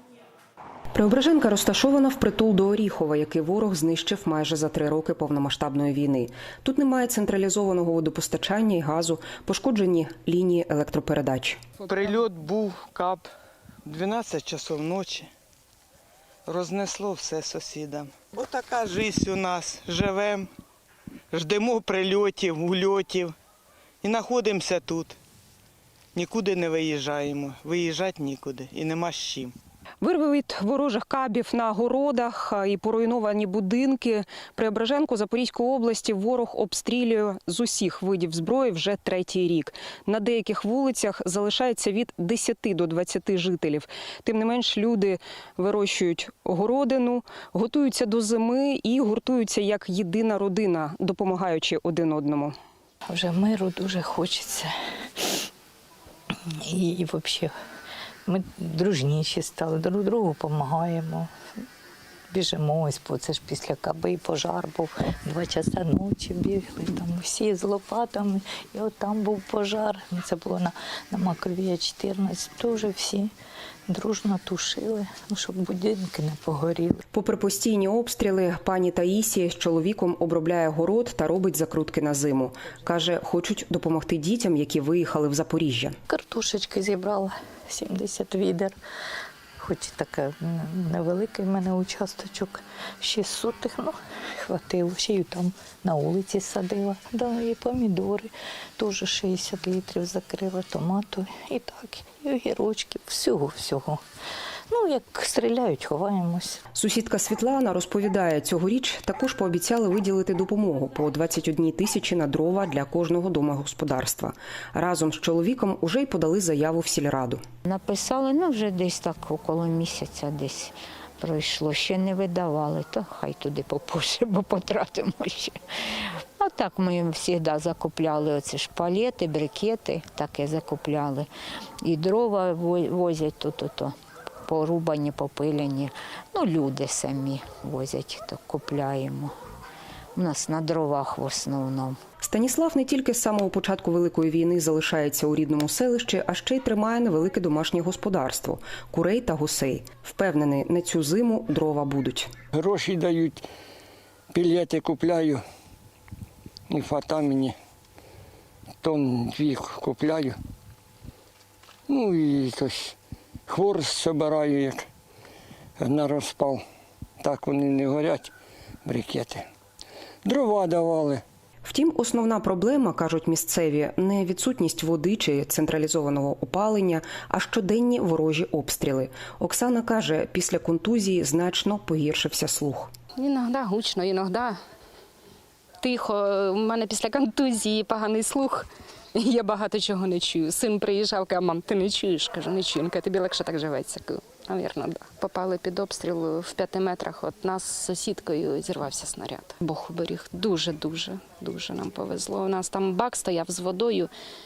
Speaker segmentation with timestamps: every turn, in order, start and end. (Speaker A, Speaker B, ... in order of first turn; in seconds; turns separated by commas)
Speaker A: 0.9-11.6, Speaker B: 11.9-13.2, Speaker B: 13.9-15.3, Speaker B: 16.5-20.4, Speaker B: 21.3-23.3, Speaker B: 24.0-25.1, Speaker B: 26.1-29.5, Speaker A: 30.0-52.5, Speaker C: 53.0-55.5, Speaker C: 56.3-57.5, Speaker C: 58.2-61.3, Speaker C: 62.3-73.3, Speaker C: 73.9-77.0, Speaker A: 77.1-86.0, Speaker C: 86.1-88.8, Speaker C: 89.6-104.0, Speaker C: 104.7-106.6, Speaker A: 106.7-117.4, Speaker D: 117.7-125.5, Speaker D: 126.4-131.3, Speaker D: 131.8-133.9, Speaker D: 134.5-139.3, Speaker D: 140.2-142.0, Speaker A: 142.2-152.3, Speaker E: 152.5-153.4, Speaker E: 154.3-155.4, Speaker E: 156.7-157.5, Speaker E: 158.8-160.4, Speaker E: 161.9-162.9, Speaker E: 163.5-164.8, Speaker E: 165.8-166.6, Speaker E: 167.2-168.3, Speaker E: 168.8-169.4, Speaker E: 170.2-171.2, Speaker A: 171.6-182.9, Speaker F: 183.2-184.6, Speaker F: 185.8-204.1